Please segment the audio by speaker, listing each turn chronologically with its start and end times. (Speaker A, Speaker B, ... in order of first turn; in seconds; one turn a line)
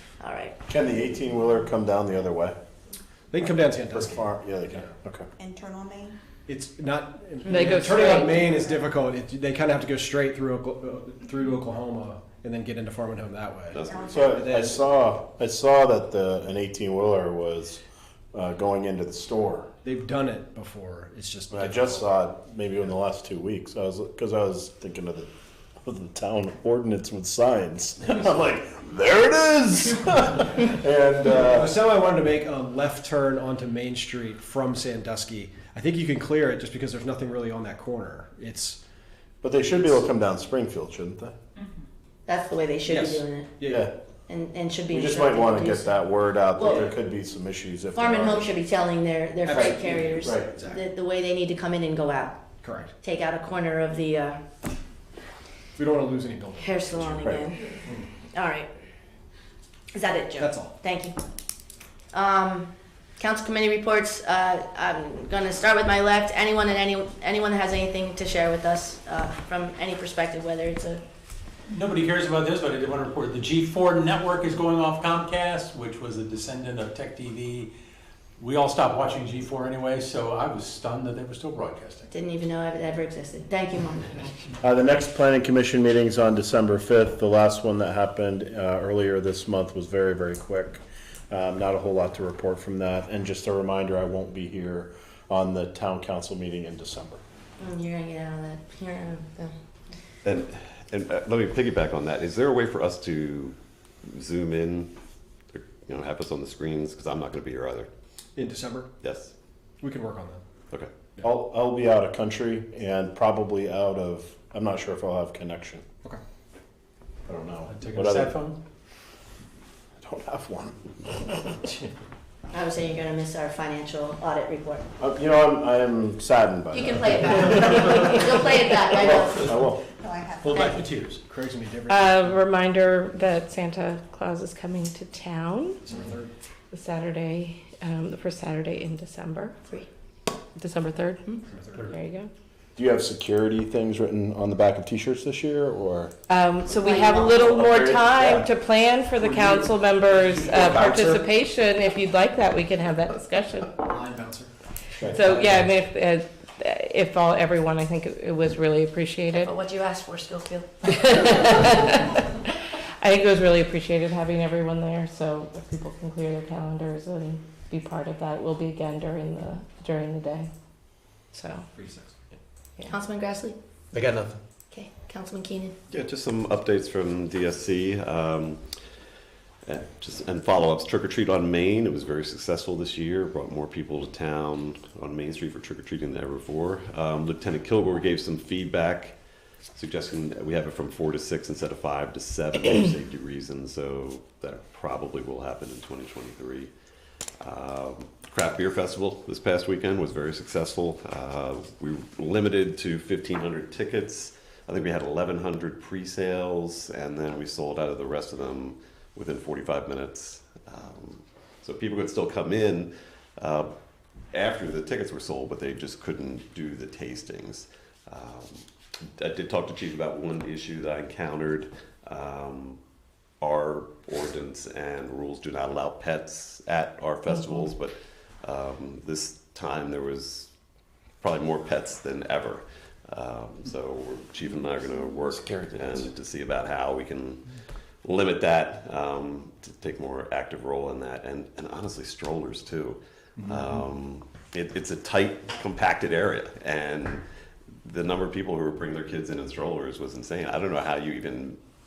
Speaker A: 0.2-0.6
Speaker B: 0.7-2.6
Speaker C: 3.3-4.2
Speaker B: 3.9-5.3
Speaker D: 5.4-6.2
Speaker C: 6.5-14.8
Speaker E: 7.5-8.4
Speaker F: 13.7-14.4
Speaker D: 13.8-14.4
Speaker B: 14.1-17.8
Speaker B: 18.3-19.7
Speaker C: 19.8-22.0
Speaker B: 21.5-25.3
Speaker B: 25.8-31.8
Speaker C: 31.3-38.8
Speaker B: 39.4-41.4
Speaker A: 42.3-43.5
Speaker C: 42.9-43.9
Speaker B: 43.7-43.9
Speaker A: 44.3-46.0
Speaker B: 44.9-48.5
Speaker A: 46.6-46.9
Speaker A: 47.9-52.4
Speaker C: 49.5-50.8
Speaker B: 49.5-50.5
Speaker C: 52.6-52.9
Speaker A: 53.0-54.4
Speaker C: 55.8-57.3
Speaker A: 56.6-57.8
Speaker B: 57.2-57.5
Speaker A: 58.3-58.7
Speaker A: 59.9-61.2
Speaker C: 60.4-60.8
Speaker A: 62.1-71.0
Speaker G: 71.7-77.7
Speaker G: 78.4-82.1
Speaker A: 82.1-84.3
Speaker B: 84.6-97.2
Speaker A: 97.6-99.5
Speaker F: 100.2-104.9
Speaker F: 105.5-107.9
Speaker C: 108.4-108.9
Speaker F: 109.0-109.3
Speaker C: 109.8-110.4
Speaker B: 111.2-115.8
Speaker B: 117.3-118.3
Speaker G: 117.7-118.6
Speaker B: 120.0-121.5
Speaker A: 122.5-124.8
Speaker B: 125.0-127.9
Speaker A: 126.7-129.6
Speaker B: 129.0-129.8
Speaker D: 130.0-130.9
Speaker G: 130.4-131.2
Speaker A: 130.5-130.7
Speaker C: 130.5-132.4
Speaker E: 131.9-135.8
Speaker C: 135.8-136.3
Speaker E: 136.7-139.6
Speaker E: 140.6-142.3
Speaker C: 141.5-141.9
Speaker B: 142.8-146.1
Speaker E: 146.3-153.8
Speaker A: 146.8-147.4
Speaker B: 147.3-148.5
Speaker G: 150.1-151.1
Speaker C: 153.8-154.5
Speaker E: 155.1-159.5
Speaker A: 159.3-160.8
Speaker E: 160.8-170.5
Speaker E: 171.3-171.6
Speaker C: 171.8-172.2
Speaker A: 172.9-173.6
Speaker A: 174.7-175.8
Speaker F: 175.9-178.6
Speaker F: 179.7-189.2
Speaker F: 189.8-196.7
Speaker F: 197.4-213.7
Speaker F: 214.3-218.6
Speaker F: 219.2-222.8
Speaker F: 223.4-230.5
Speaker F: 231.2-237.4
Speaker F: 238.0-247.2
Speaker F: 247.8-251.6